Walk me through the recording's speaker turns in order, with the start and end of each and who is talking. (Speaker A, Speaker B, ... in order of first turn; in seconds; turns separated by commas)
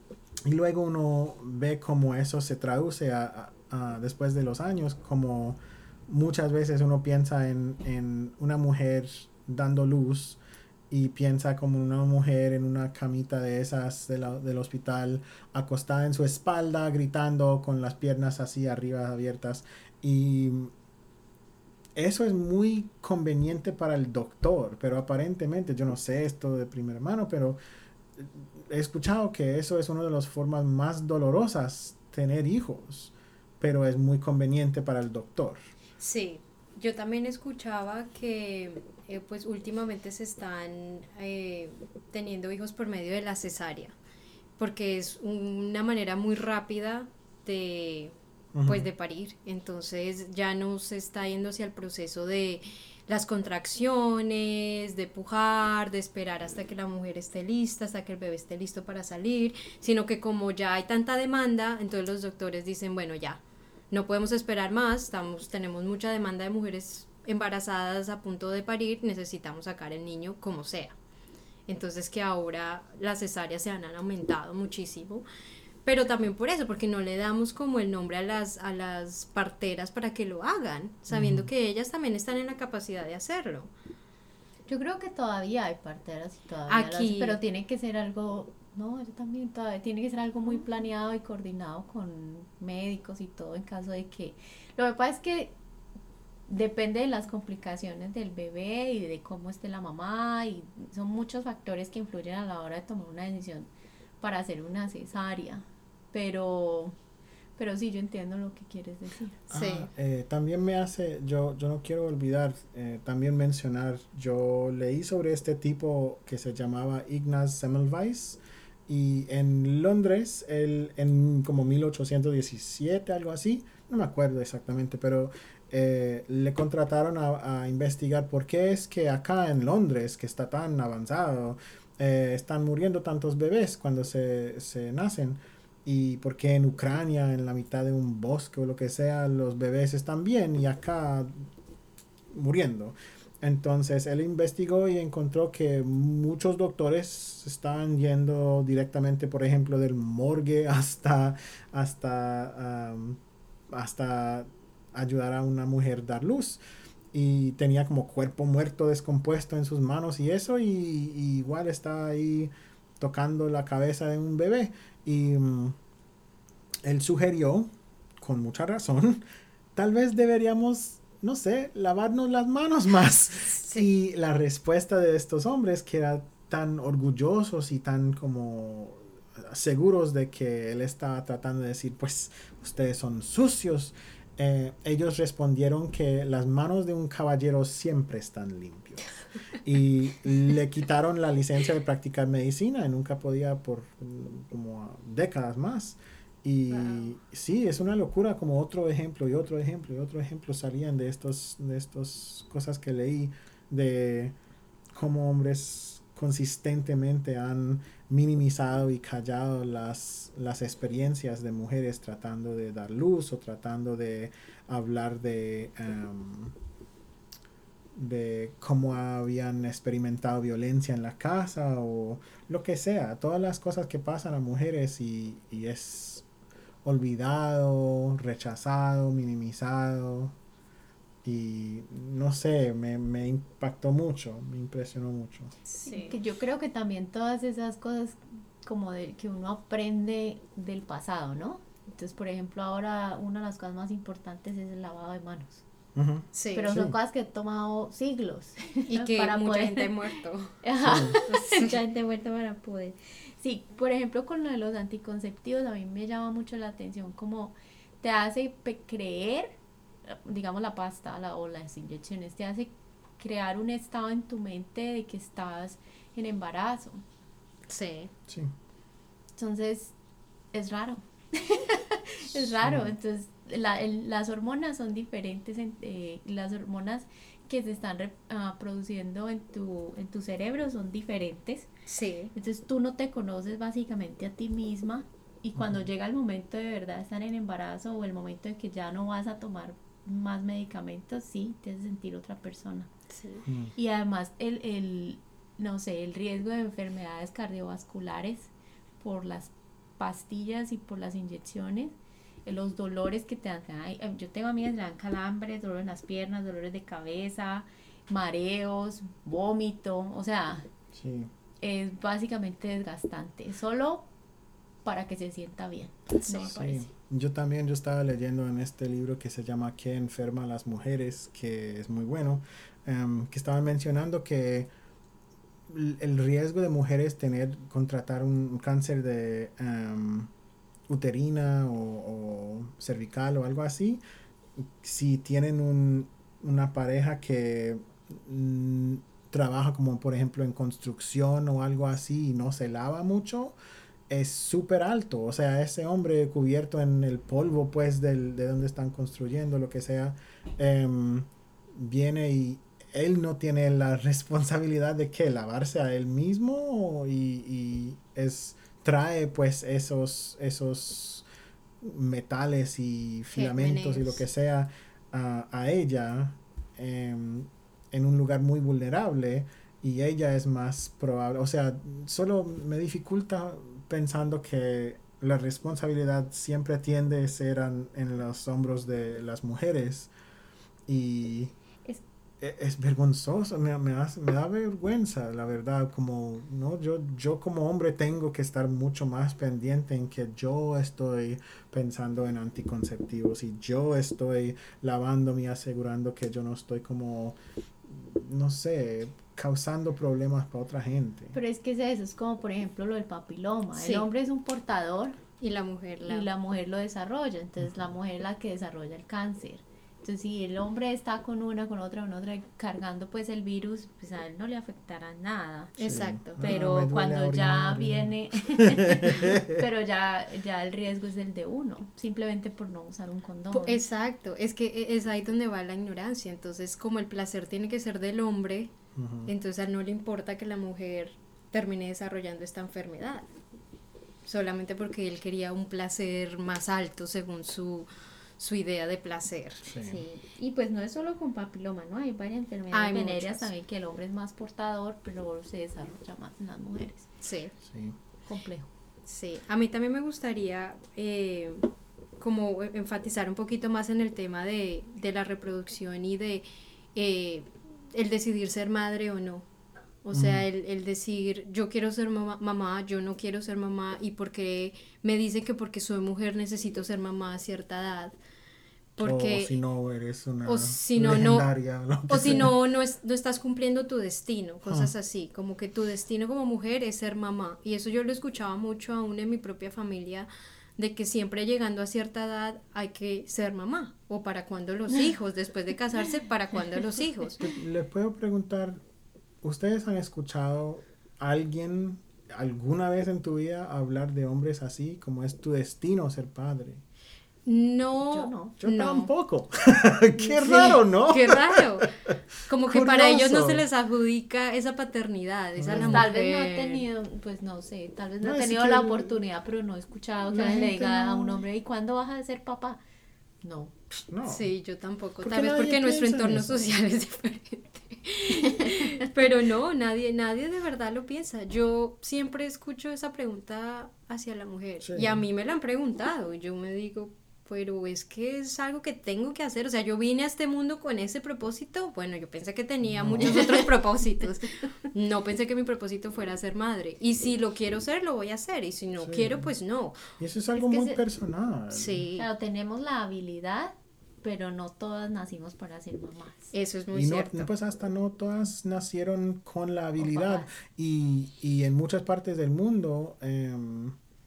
Speaker A: 0.5-20.7, Speaker A: 22.0-27.6, Speaker A: 28.2-35.6, Speaker B: 36.0-44.0, Speaker B: 44.6-48.1, Speaker A: 48.5-48.9, Speaker B: 48.6-63.4, Speaker B: 63.9-71.0, Speaker B: 71.7-75.2, Speaker B: 75.8-83.7, Speaker A: 81.1-81.5, Speaker C: 84.7-95.5, Speaker B: 86.7-87.4, Speaker C: 96.5-103.7, Speaker C: 104.2-107.0, Speaker C: 107.6-109.5, Speaker A: 109.5-141.5, Speaker B: 109.5-109.9, Speaker A: 142.3-156.6, Speaker A: 157.1-165.8, Speaker A: 166.8-169.2, Speaker A: 169.8-189.1, Speaker B: 173.5-173.9, Speaker A: 189.6-204.4, Speaker C: 196.7-197.1, Speaker A: 204.9-216.6, Speaker A: 217.9-226.2, Speaker A: 226.8-230.3, Speaker A: 231.2-235.5, Speaker B: 235.7-236.2, Speaker C: 235.8-245.6, Speaker A: 245.9-246.9, Speaker B: 246.3-246.7, Speaker C: 246.5-259.6, Speaker B: 248.9-250.6, Speaker A: 250.8-251.2, Speaker B: 251.2-251.8, Speaker C: 260.1-267.0, Speaker B: 267.7-268.1, Speaker C: 269.4-269.9, Speaker C: 270.5-281.7, Speaker A: 272.6-272.9, Speaker B: 281.9-282.3, Speaker C: 282.3-292.9, Speaker A: 285.6-285.9, Speaker B: 293.1-293.4, Speaker A: 293.5-293.8, Speaker C: 293.8-310.7, Speaker A: 310.9-311.3, Speaker C: 311.6-314.1, Speaker C: 314.8-316.9, Speaker B: 316.2-316.5, Speaker A: 316.4-324.7, Speaker A: 325.7-330.3, Speaker A: 330.9-334.0, Speaker A: 334.6-343.6, Speaker A: 344.1-361.3, Speaker A: 361.8-380.1, Speaker B: 363.3-364.2, Speaker A: 380.9-381.5, Speaker A: 382.4-401.4, Speaker C: 401.3-405.2, Speaker B: 403.8-404.1, Speaker B: 405.4-406.3, Speaker C: 406.0-415.8, Speaker B: 415.8-416.5, Speaker A: 415.8-419.6, Speaker C: 416.4-423.8, Speaker B: 423.5-428.7, Speaker A: 428.9-429.3, Speaker B: 429.3-433.3, Speaker B: 434.3-439.6, Speaker A: 439.6-440.0, Speaker C: 439.8-447.1, Speaker B: 442.7-443.5, Speaker B: 447.2-447.5, Speaker A: 447.6-448.0, Speaker C: 448.3-448.7, Speaker B: 449.1-451.7, Speaker B: 452.2-459.4, Speaker B: 460.1-468.2, Speaker A: 460.1-460.5, Speaker B: 469.0-469.6, Speaker A: 469.0-472.6, Speaker B: 470.4-471.5, Speaker B: 472.1-487.4, Speaker A: 474.6-474.9, Speaker A: 487.4-488.8, Speaker A: 489.4-496.8, Speaker B: 497.5-499.1, Speaker C: 498.1-498.5, Speaker A: 498.6-501.9, Speaker B: 500.2-501.9, Speaker B: 502.5-506.9, Speaker A: 502.7-503.6, Speaker A: 505.6-506.1, Speaker C: 505.8-512.8, Speaker A: 508.2-509.2, Speaker A: 510.3-511.4, Speaker C: 513.4-513.8, Speaker A: 514.1-514.5, Speaker B: 514.2-540.0, Speaker A: 515.2-516.7, Speaker C: 518.3-519.0, Speaker A: 524.8-525.2, Speaker A: 532.9-533.5, Speaker C: 533.3-533.6, Speaker A: 539.0-539.5, Speaker A: 540.2-542.1, Speaker C: 540.5-541.0, Speaker B: 541.7-542.3, Speaker C: 542.2-546.5, Speaker B: 546.5-547.5, Speaker A: 546.9-554.0, Speaker C: 550.0-550.5